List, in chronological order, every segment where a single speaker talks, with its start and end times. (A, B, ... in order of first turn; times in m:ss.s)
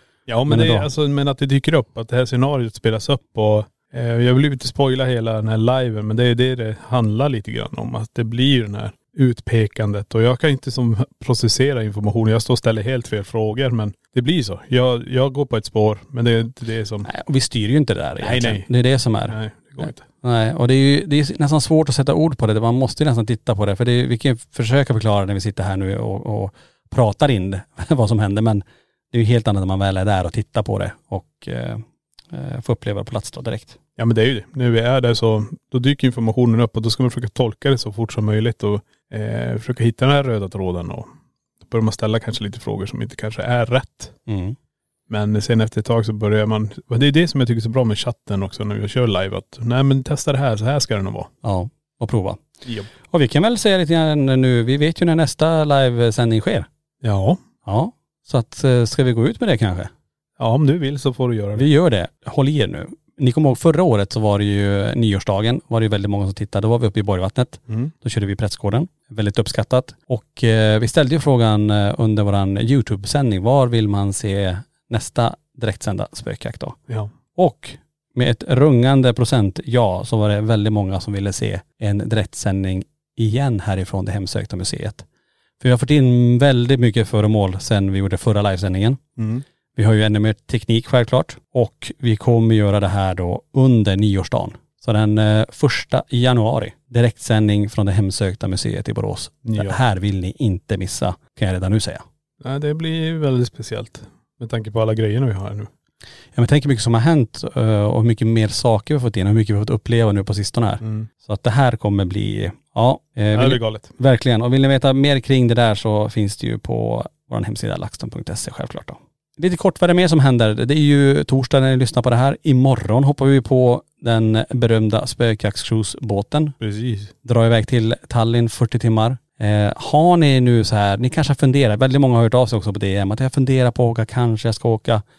0:00.3-0:17.1 A
0:00.5-0:00.9 B
0:17.0-0:33.8 B
0:18.2-0:18.7 A
0:19.3-0:20.0 A
0:34.0-0:41.1 A
0:41.6-0:44.2 A
0:44.3-0:44.6 B
0:45.1-0:51.3 A
0:51.4-0:52.4 B
0:52.6-0:52.9 A
0:53.1-0:56.7 B
0:57.0-0:57.4 A
0:57.6-0:59.9 B
1:00.4-1:01.7 A
1:01.6-1:16.8 B
1:17.3-1:25.0 B
1:25.6-1:29.0 B
1:29.2-1:29.4 A
1:29.7-1:42.0 B
1:39.4-1:39.8 A
1:42.4-1:45.7 A
1:46.4-2:06.6 B
1:50.8-1:51.1 A
1:53.3-1:53.9 A
2:06.6-2:07.1 A
2:07.2-2:15.0 B